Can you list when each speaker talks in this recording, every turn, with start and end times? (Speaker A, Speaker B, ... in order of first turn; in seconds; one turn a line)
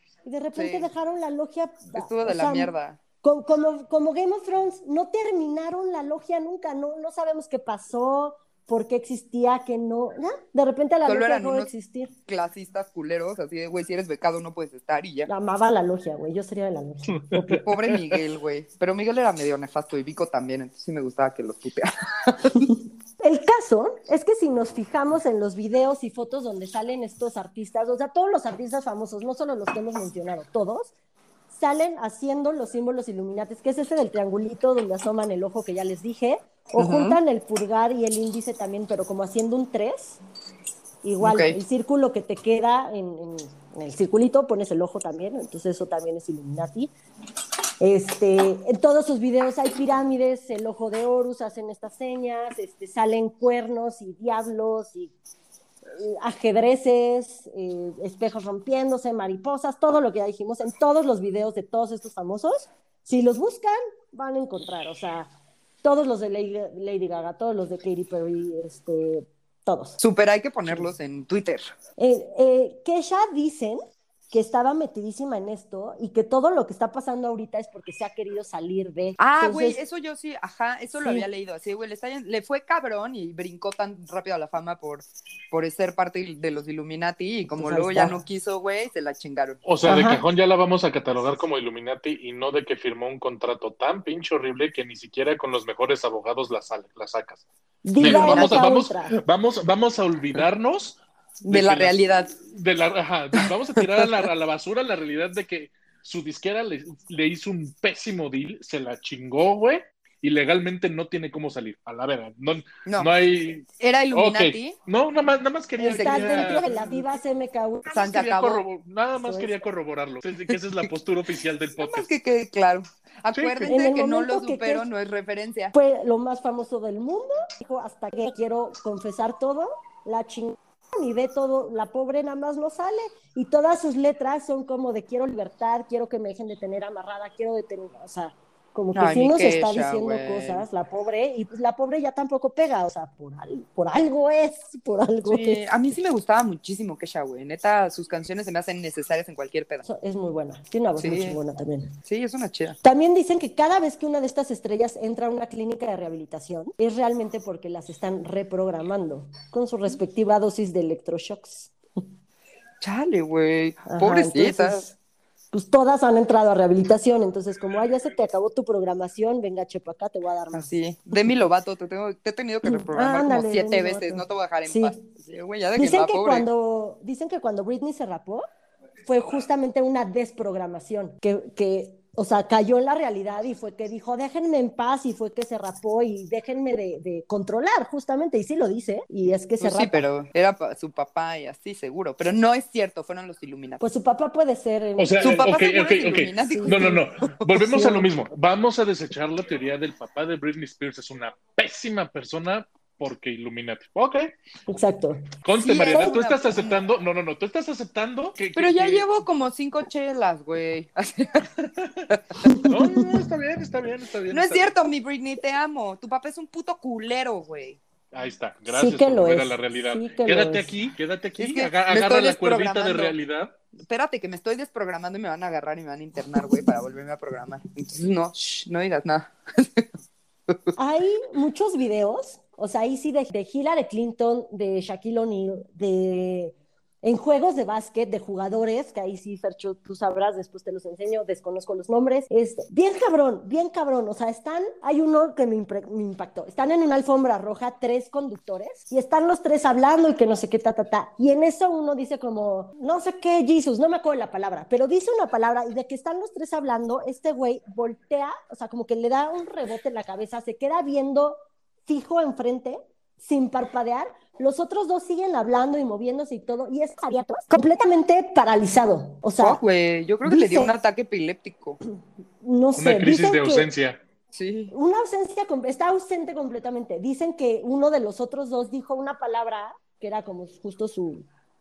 Speaker A: 0.2-12.1
Speaker B: 0.6-0.9
Speaker B: 2.0-3.0
Speaker B: 11.1-11.7
Speaker B: 12.3-15.3
Speaker A: 15.3-17.7
Speaker C: 17.1-18.2
Speaker B: 17.6-22.7
Speaker A: 23.2-30.9
Speaker A: 31.5-40.2
Speaker B: 36.8-37.2
Speaker A: 41.0-46.9
Speaker B: 41.2-41.6
Speaker A: 47.8-55.1
Speaker A: 56.0-65.3
Speaker A: 65.8-70.0
Speaker B: 70.0-71.7
Speaker A: 72.0-79.8
Speaker B: 79.2-89.6
Speaker A: 81.0-81.3
Speaker A: 87.5-88.2
Speaker C: 89.7-97.4
Speaker A: 89.8-90.2
Speaker A: 97.8-99.2
Speaker C: 98.0-116.7
Speaker B: 98.0-98.7
Speaker B: 101.4-102.3
Speaker B: 103.4-104.2
Speaker B: 112.8-113.1
Speaker B: 113.8-114.8
Speaker A: 115.8-118.0
Speaker B: 115.9-117.1
Speaker B: 117.9-118.6
Speaker C: 118.0-122.1
Speaker A: 119.2-119.6
Speaker B: 121.8-125.7
Speaker C: 123.3-123.8
Speaker A: 123.7-124.9
Speaker A: 125.7-145.6
Speaker B: 138.9-140.7
Speaker B: 145.3-149.8
Speaker A: 149.8-151.9
Speaker B: 151.0-151.4
Speaker B: 152.1-152.8
Speaker A: 152.8-162.0
Speaker B: 162.8-164.9
Speaker A: 163.9-165.0
Speaker A: 165.5-170.7
Speaker B: 170.5-176.5
Speaker A: 172.7-175.1
Speaker A: 175.8-178.4
Speaker A: 179.1-190.1
Speaker B: 189.6-193.8
Speaker A: 193.8-195.5
Speaker C: 195.0-204.3
Speaker B: 195.2-197.0
Speaker A: 196.5-198.1
Speaker A: 204.7-205.3
Speaker C: 205.4-209.1
Speaker B: 205.6-206.8
Speaker A: 205.9-206.2
Speaker B: 208.6-211.5
Speaker C: 211.8-212.1
Speaker B: 212.1-212.6
Speaker C: 212.6-214.7
Speaker B: 214.3-217.8
Speaker C: 218.1-223.5
Speaker A: 218.7-220.7
Speaker B: 221.4-223.2
Speaker B: 223.9-229.9
Speaker A: 230.8-269.6
Speaker B: 269.4-271.8
Speaker A: 270.2-270.7
Speaker A: 272.4-273.7
Speaker C: 272.8-274.0
Speaker B: 274.3-274.7
Speaker A: 274.7-281.3